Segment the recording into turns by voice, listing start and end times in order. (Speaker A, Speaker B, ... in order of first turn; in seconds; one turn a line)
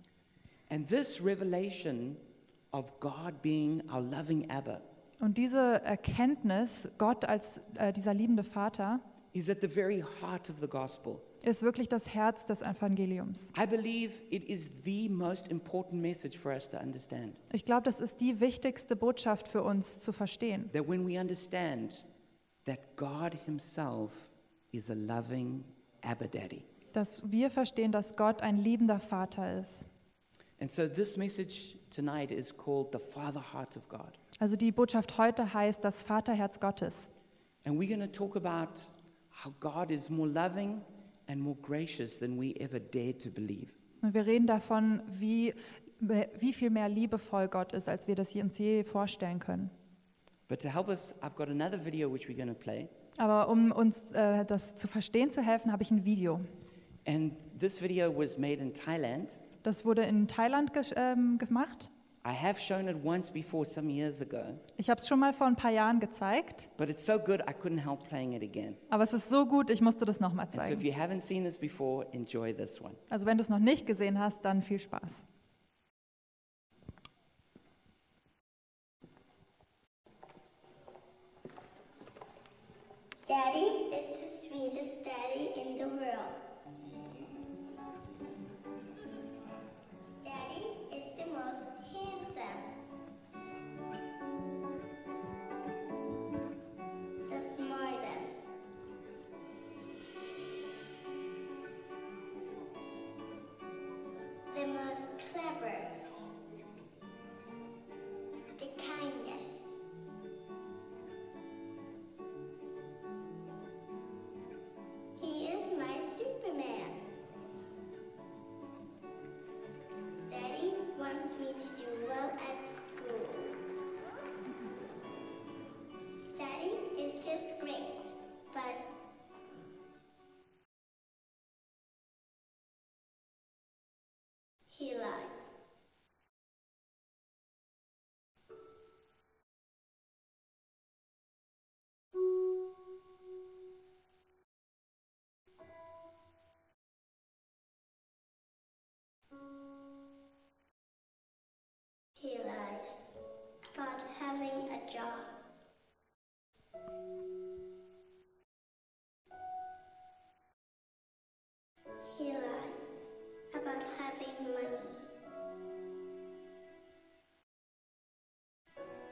Speaker A: 0.7-4.8
Speaker B: 5.2-9.0
Speaker A: 9.3-11.3
Speaker B: 11.4-13.5
Speaker A: 13.5-17.4
Speaker B: 17.5-20.7
Speaker A: 20.7-22.0
Speaker A: 22.6-26.7
Speaker B: 26.9-29.9
Speaker A: 30.6-34.2
Speaker B: 34.4-37.1
Speaker A: 37.6-43.7
Speaker B: 44.0-49.7
Speaker A: 50.5-52.9
Speaker B: 53.2-56.5
Speaker A: 57.0-59.4
Speaker B: 59.6-61.9
Speaker A: 62.2-64.6
Speaker B: 64.8-66.7
Speaker A: 66.8-68.8
Speaker B: 68.9-70.8
Speaker A: 70.5-73.0
Speaker B: 73.1-75.2
Speaker C: 83.2-86.4
Speaker C: 90.2-92.7
Speaker C: 97.3-98.5
Speaker C: 104.5-106.0
Speaker C: 108.5-109.7
Speaker C: 115.2-117.0
Speaker C: 120.3-123.6
Speaker C: 126.3-128.9
Speaker C: 134.7-135.6
Speaker C: 152.2-153.2
Speaker C: 153.7-155.3
Speaker C: 162.0-165.1